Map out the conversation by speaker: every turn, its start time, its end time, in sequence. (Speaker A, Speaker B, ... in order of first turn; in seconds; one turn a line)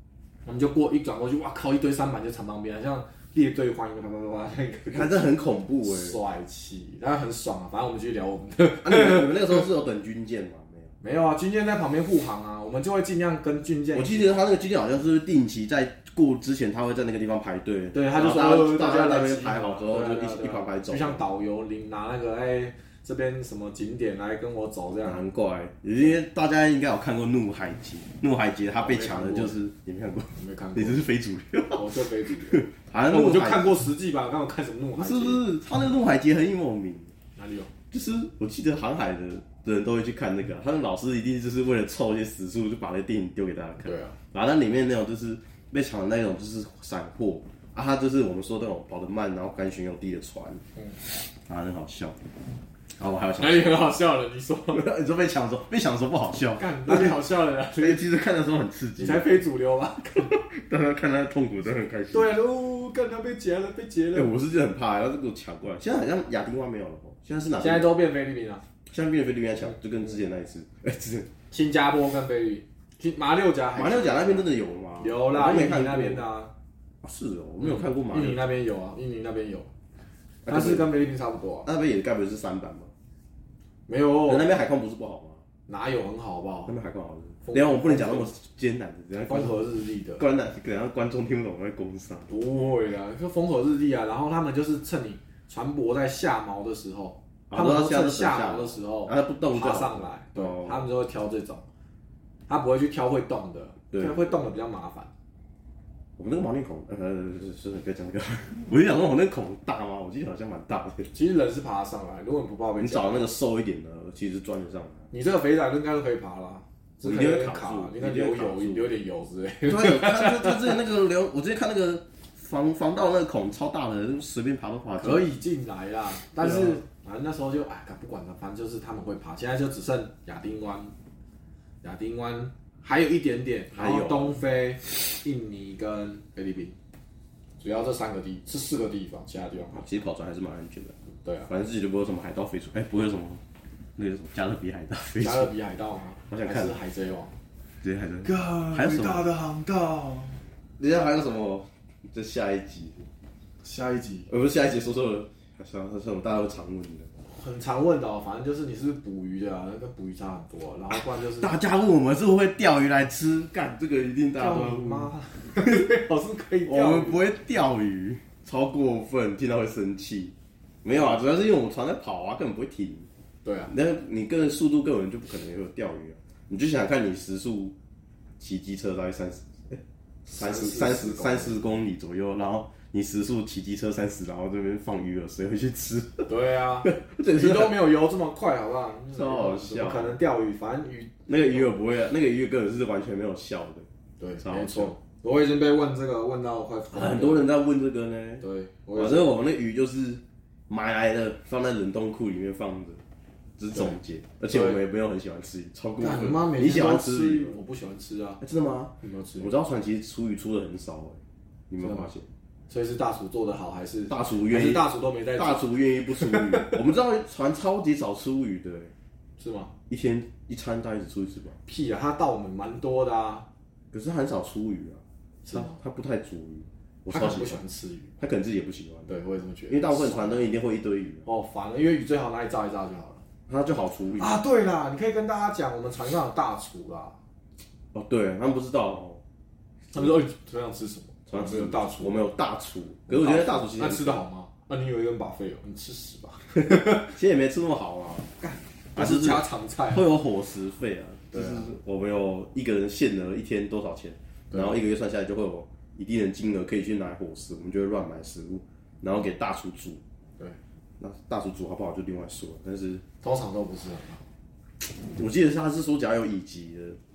Speaker A: 0.4-5.1
Speaker B: 4.9-6.2
Speaker A: 5.8-9.5
Speaker B: 8.8-10.9
Speaker A: 11.0-14.3
Speaker B: 13.9-21.2
Speaker A: 17.9-25.2
Speaker B: 25.0-33.7
Speaker A: 28.7-29.5
Speaker A: 30.4-31.0
Speaker A: 31.8-35.4
Speaker B: 35.0-37.1
Speaker A: 37.4-37.7
Speaker B: 37.9-50.6
Speaker A: 43.8-44.2
Speaker B: 51.3-52.2
Speaker B: 53.0-53.9
Speaker A: 53.4-54.8
Speaker B: 54.7-57.2
Speaker A: 56.6-58.0
Speaker B: 57.8-59.4
Speaker A: 59.0-60.3
Speaker B: 60.2-62.3
Speaker A: 62.1-64.3
Speaker B: 64.1-67.9
Speaker A: 67.6-68.6
Speaker B: 68.9-71.3
Speaker A: 71.5-74.5
Speaker B: 73.7-76.2
Speaker A: 75.0-76.5
Speaker B: 77.0-78.4
Speaker A: 77.6-79.7
Speaker B: 80.4-80.9
Speaker A: 80.5-81.7
Speaker B: 81.7-82.9
Speaker A: 83.9-84.5
Speaker B: 84.2-85.4
Speaker A: 85.7-86.7
Speaker B: 86.7-89.5
Speaker A: 87.4-88.3
Speaker A: 89.2-90.2
Speaker B: 90.2-92.3
Speaker A: 92.3-101.6
Speaker B: 97.5-100.9
Speaker A: 102.5-105.1
Speaker B: 103.9-104.2
Speaker B: 106.2-111.1
Speaker A: 111.1-113.3
Speaker B: 112.8-115.0
Speaker A: 115.1-120.7
Speaker B: 117.0-118.9
Speaker B: 119.7-125.3
Speaker A: 124.9-130.9
Speaker B: 126.4-126.8
Speaker A: 131.8-136.8
Speaker B: 133.7-134.4
Speaker A: 137.6-139.9
Speaker B: 139.7-140.9
Speaker A: 141.2-141.5
Speaker B: 141.5-143.4
Speaker B: 143.9-145.5
Speaker A: 145.2-147.3
Speaker B: 146.3-146.8
Speaker B: 147.8-149.3
Speaker A: 148.2-150.4
Speaker B: 150.8-153.1
Speaker A: 153.6-154.3
Speaker B: 154.3-157.1
Speaker A: 157.3-161.5
Speaker B: 160.9-165.1
Speaker A: 164.3-167.2
Speaker B: 166.6-173.1
Speaker A: 173.4-173.7
Speaker B: 173.7-177.7
Speaker B: 178.4-186.3
Speaker A: 180.3-181.7
Speaker A: 186.3-191.7
Speaker B: 186.8-187.9
Speaker B: 189.1-190.2
Speaker B: 191.3-193.8
Speaker A: 194.2-197.5
Speaker B: 194.4-194.9
Speaker B: 196.9-198.4
Speaker A: 198.4-199.3
Speaker B: 198.9-203.0
Speaker B: 203.6-207.6
Speaker A: 204.5-204.8
Speaker A: 206.0-208.4
Speaker B: 208.4-211.2
Speaker A: 209.0-209.5
Speaker B: 211.7-212.3
Speaker A: 211.8-212.1
Speaker A: 212.7-216.8
Speaker B: 214.1-214.8
Speaker B: 215.3-218.9
Speaker A: 219.4-219.7
Speaker B: 219.9-221.6
Speaker A: 221.7-223.4
Speaker B: 223.9-227.6
Speaker A: 225.4-225.8
Speaker A: 227.1-228.1
Speaker B: 228.2-229.1
Speaker A: 229.1-230.5
Speaker B: 229.7-231.2
Speaker A: 231.2-233.2
Speaker B: 233.5-234.4
Speaker A: 234.2-237.2
Speaker B: 237.9-239.2
Speaker A: 239.9-242.2
Speaker B: 241.3-244.2
Speaker A: 243.1-246.9
Speaker B: 246.7-248.3
Speaker A: 248.4-250.0
Speaker B: 248.9-260.0
Speaker A: 251.3-251.7
Speaker A: 254.5-254.8
Speaker B: 261.0-263.0
Speaker A: 263.2-264.2
Speaker B: 265.1-267.0